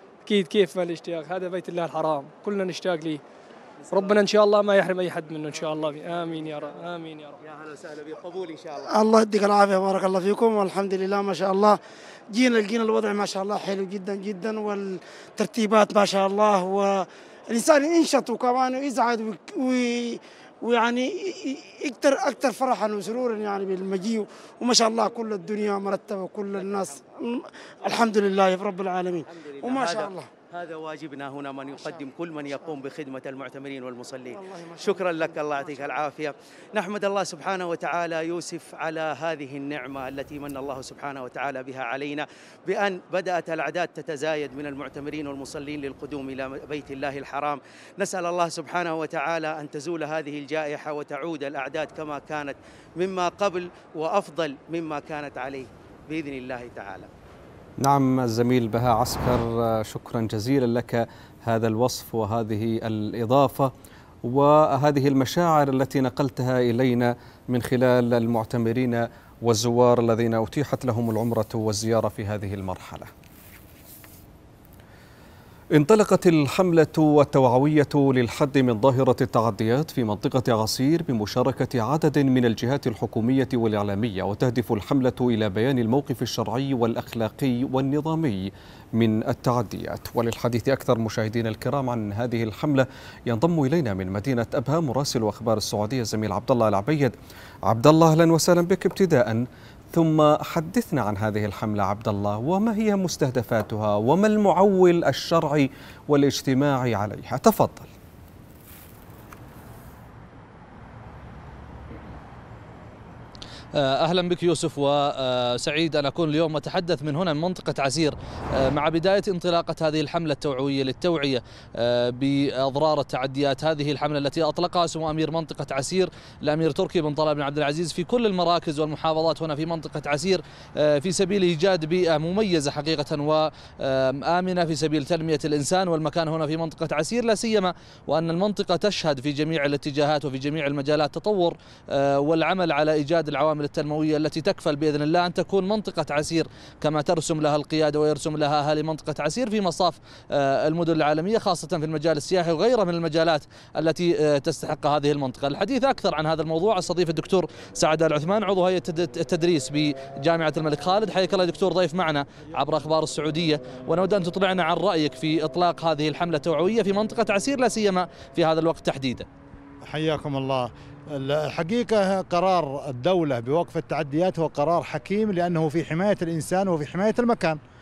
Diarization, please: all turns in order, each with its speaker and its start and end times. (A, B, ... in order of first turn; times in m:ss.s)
0:00.3-0:03.2 A
0:03.8-0:04.3 B
0:03.9-0:07.4 A
0:05.5-0:06.8 B
0:07.4-0:08.9 B
0:08.9-0:11.8 C
0:12.3-0:30.3 C
0:26.6-0:26.9 B
0:29.3-0:57.1 B
0:34.6-0:35.0 C
0:57.8-1:03.7 D
1:04.2-1:13.1 D
1:15.7-1:37.1 D
1:37.7-1:47.9 D
1:53.8-2:49.3 E
2:49.9-2:57.6 F